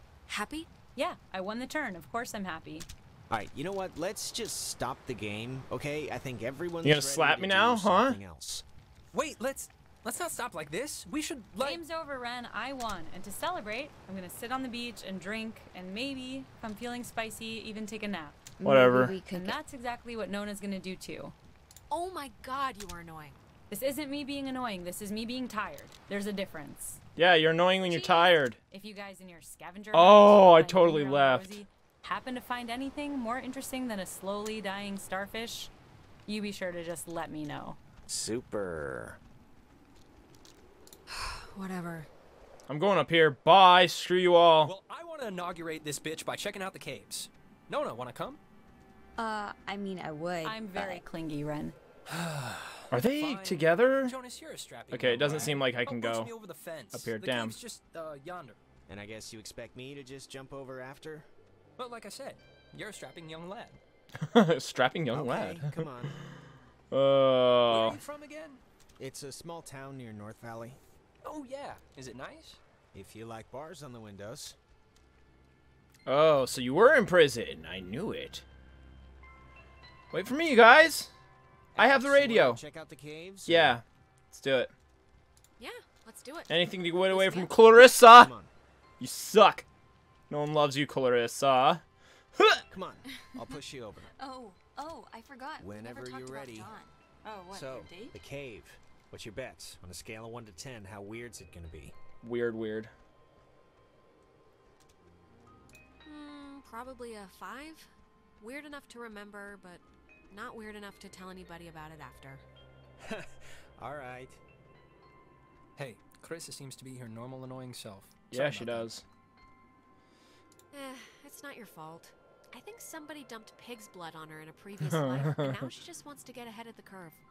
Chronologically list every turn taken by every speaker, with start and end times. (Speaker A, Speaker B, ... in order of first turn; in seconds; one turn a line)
Speaker A: 0.3-0.7
Speaker B: 0.9-2.9
Speaker C: 3.3-8.7
Speaker D: 6.8-8.2
Speaker E: 9.1-11.8
Speaker B: 11.6-18.4
Speaker F: 18.6-19.6
Speaker D: 18.6-19.2
Speaker B: 19.3-21.3
Speaker A: 21.9-23.4
Speaker B: 23.7-27.0
Speaker D: 27.2-28.6
Speaker A: 27.9-28.4
Speaker B: 28.7-35.7
Speaker D: 29.9-31.6
Speaker B: 36.3-37.8
Speaker C: 38.1-39.2
Speaker A: 41.1-42.1
Speaker D: 42.7-44.7
Speaker E: 44.6-48.4
Speaker F: 49.2-51.0
Speaker B: 50.4-51.8
Speaker E: 52.1-58.6
Speaker D: 52.9-54.1
Speaker D: 54.9-56.3
Speaker D: 56.9-57.6
Speaker C: 58.9-61.3
Speaker E: 61.8-63.8
Speaker D: 64.2-66.3
Speaker C: 65.1-66.2
Speaker D: 66.9-68.0
Speaker E: 67.7-68.6
Speaker C: 69.0-70.8
Speaker E: 71.2-72.6
Speaker C: 72.9-74.6
Speaker D: 76.1-78.5
Speaker D: 80.1-81.1
Speaker C: 81.8-83.8
Speaker D: 81.8-82.6
Speaker D: 83.5-84.7
Speaker A: 85.6-88.0
Speaker D: 86.5-88.3
Speaker C: 88.0-88.5
Speaker D: 89.0-89.7
Speaker D: 90.3-91.8
Speaker D: 92.4-92.6
Speaker C: 92.7-94.1
Speaker F: 94.2-98.1
Speaker C: 95.6-96.8
Speaker C: 97.5-101.9
Speaker D: 102.2-102.9
Speaker A: 106.0-112.4
Speaker C: 113.0-114.4
Speaker E: 115.8-118.9
Speaker D: 118.3-119.0
Speaker A: 120.7-127.2
Speaker D: 124.8-125.7